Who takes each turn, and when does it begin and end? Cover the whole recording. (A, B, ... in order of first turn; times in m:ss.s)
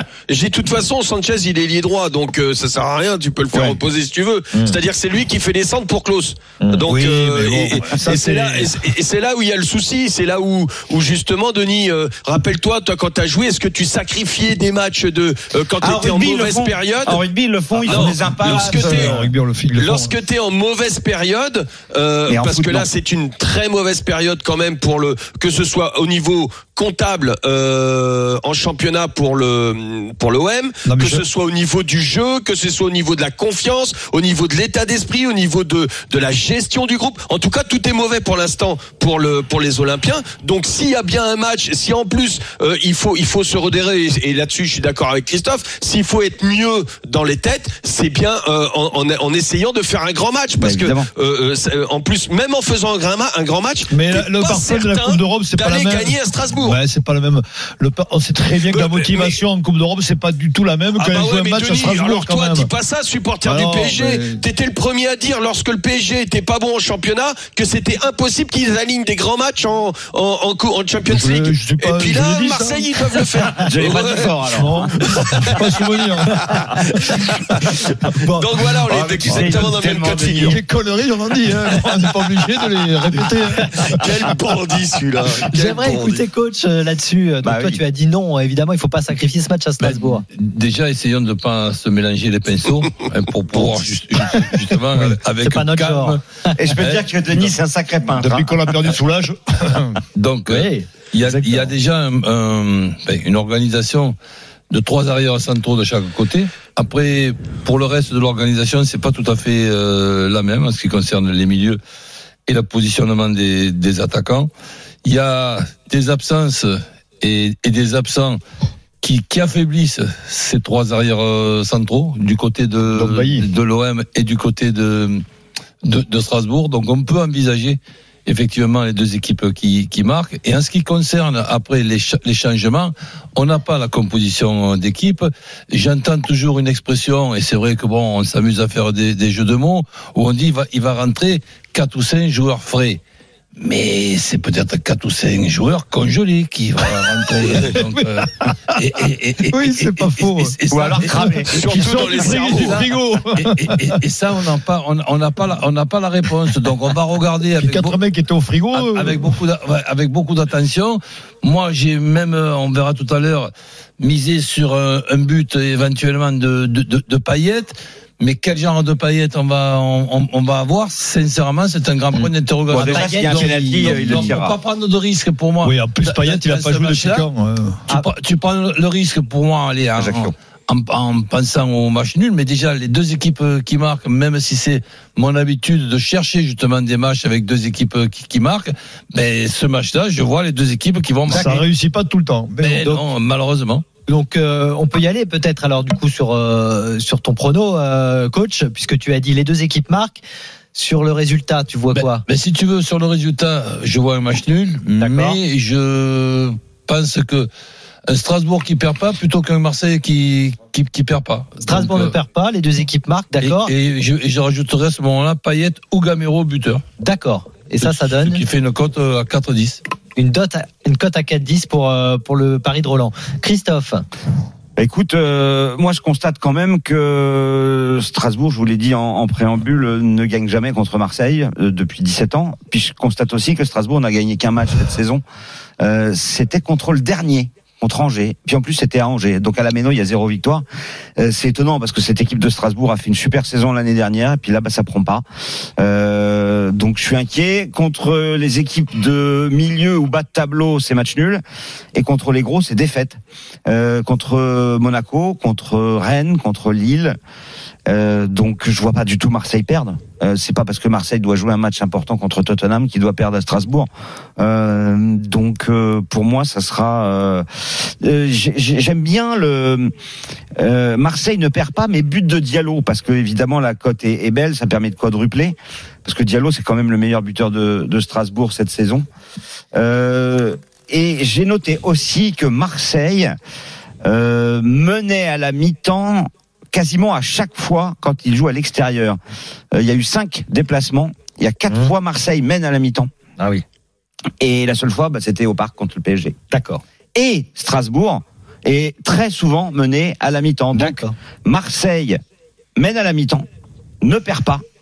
0:00.3-0:17.2 A
0:03.5-0:03.8 B
0:06.8-0:08.9 C
0:15.8-0:19.2 B
0:17.8-0:20.2 C
0:17.9-0:19.1 A
0:19.7-0:56.8 A
0:22.3-0:22.9 B
0:30.8-0:31.2 C
0:50.6-0:51.1 B
0:53.9-1:02.7 C
0:58.6-0:59.4 A
1:01.0-1:14.3 A
1:03.4-1:04.4 C
1:11.0-1:17.2 C
1:13.5-1:15.3 B
1:15.4-1:15.7 A
1:18.1-1:20.6 B
1:18.3-1:20.6 A
1:19.3-1:19.7 C
1:20.4-1:23.9 C
1:23.9-1:26.2 A
1:25.4-1:30.2 D
1:27.4-1:27.8 B
1:29.8-1:36.2 E
1:35.4-1:36.5 D
1:36.6-1:38.6 B
1:36.7-1:37.0 E
1:38.1-1:40.0 C
1:40.2-1:44.2 E
1:40.5-1:41.7 D
1:44.7-1:51.8 E
1:52.5-1:54.5 E
1:55.0-1:58.4 E
1:59.0-2:05.2 E
2:02.9-2:03.5 C
2:05.8-2:23.0 E
2:23.6-2:31.5 E
2:27.1-2:28.9 C
2:29.5-2:34.0 C
2:30.7-2:31.5 B
2:31.5-2:32.9 A
2:33.3-2:38.0 E
2:37.6-2:39.4 C
2:38.7-2:57.3 E
2:52.2-2:54.3 D
2:52.7-2:54.6 B
2:55.6-2:57.8 C
2:57.9-3:11.6 E
3:00.0-3:00.3 B
3:11.3-3:12.9 C
3:11.3-3:11.6 D
3:12.6-3:13.8 E
3:14.1-3:20.2 D
3:20.7-3:22.2 D
3:21.9-3:27.5 E
3:25.0-3:25.4 D
3:28.1-3:32.1 E
3:31.6-3:33.7 D
3:33.4-3:36.8 E
3:37.0-3:38.4 D
3:37.8-3:39.8 E
3:40.2-3:44.0 D
3:44.8-3:55.2 B
3:55.8-4:00.6 B
4:01.2-4:05.2 B
4:05.8-4:11.4 B
4:11.9-4:17.2 B
4:17.9-4:29.9 B
4:30.6-4:39.0 B
4:39.7-4:43.3 B
4:44.0-4:49.2 B
4:49.7-4:53.1 B
4:54.4-4:56.4 B
4:56.5-4:56.8 D
4:57.1-5:02.2 B
5:00.7-5:01.1 D
5:02.8-5:03.4 B
5:04.0-5:04.6 B